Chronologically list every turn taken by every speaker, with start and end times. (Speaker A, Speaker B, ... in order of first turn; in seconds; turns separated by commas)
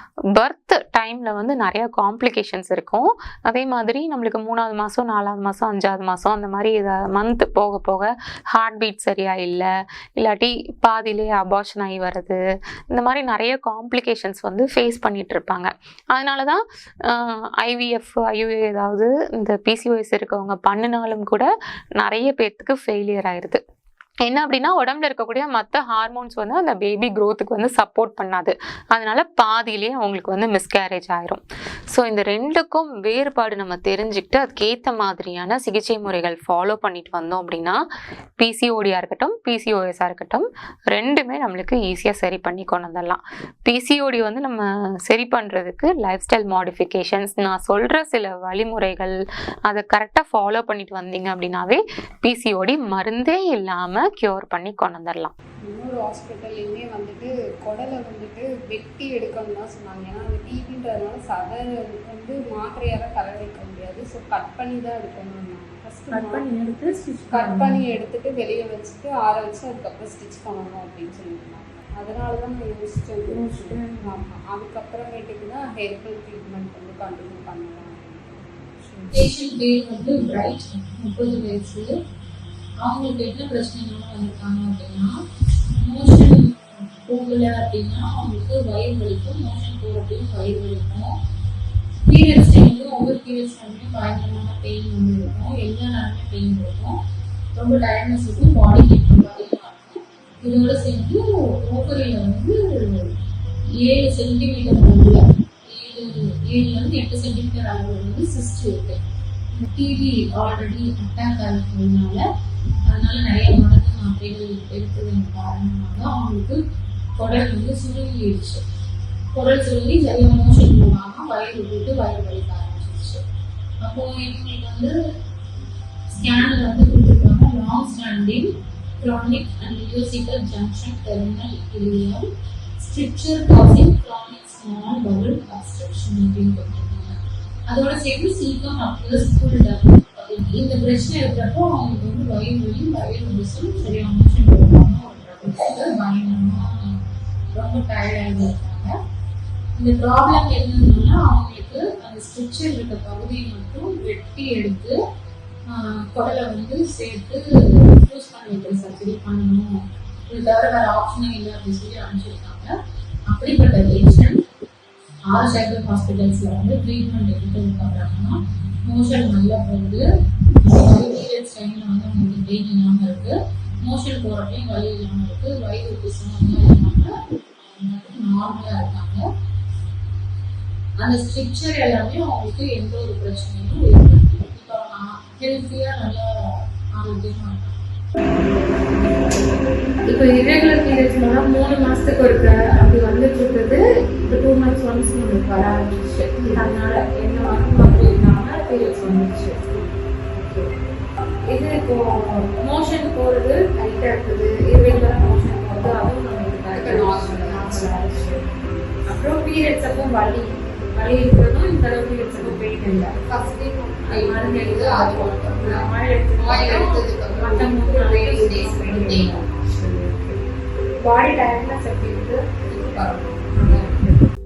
Speaker A: 0.3-12.4, Speaker A: 12.9-23.6, Speaker A: 24.2-37.8, Speaker A: 38.4-49.2, Speaker A: 49.7-55.3, Speaker B: 55.6-66.5, Speaker C: 66.2-67.8, Speaker B: 67.3-79.0, Speaker C: 73.3-74.0, Speaker D: 79.1-81.9, Speaker D: 82.8-85.1, Speaker D: 85.8-91.1, Speaker D: 92.0-97.0, Speaker D: 97.5-103.1, Speaker D: 103.8-109.0, Speaker D: 109.5-112.2, Speaker D: 112.9-116.6, Speaker D: 117.2-118.6, Speaker D: 119.3-123.2, Speaker D: 123.8-125.0, Speaker D: 126.1-128.5, Speaker D: 129.0-132.2, Speaker D: 132.8-137.2, Speaker D: 137.7-147.0, Speaker D: 147.5-148.9, Speaker D: 149.8-155.0, Speaker D: 155.7-162.7, Speaker D: 163.3-164.4, Speaker D: 165.3-170.1, Speaker D: 170.6-179.2, Speaker D: 181.0-187.8, Speaker C: 188.4-189.4, Speaker C: 190.1-200.7, Speaker C: 201.5-208.5, Speaker D: 206.7-208.0, Speaker C: 209.1-220.4, Speaker D: 213.4-219.4, Speaker C: 221.0-224.3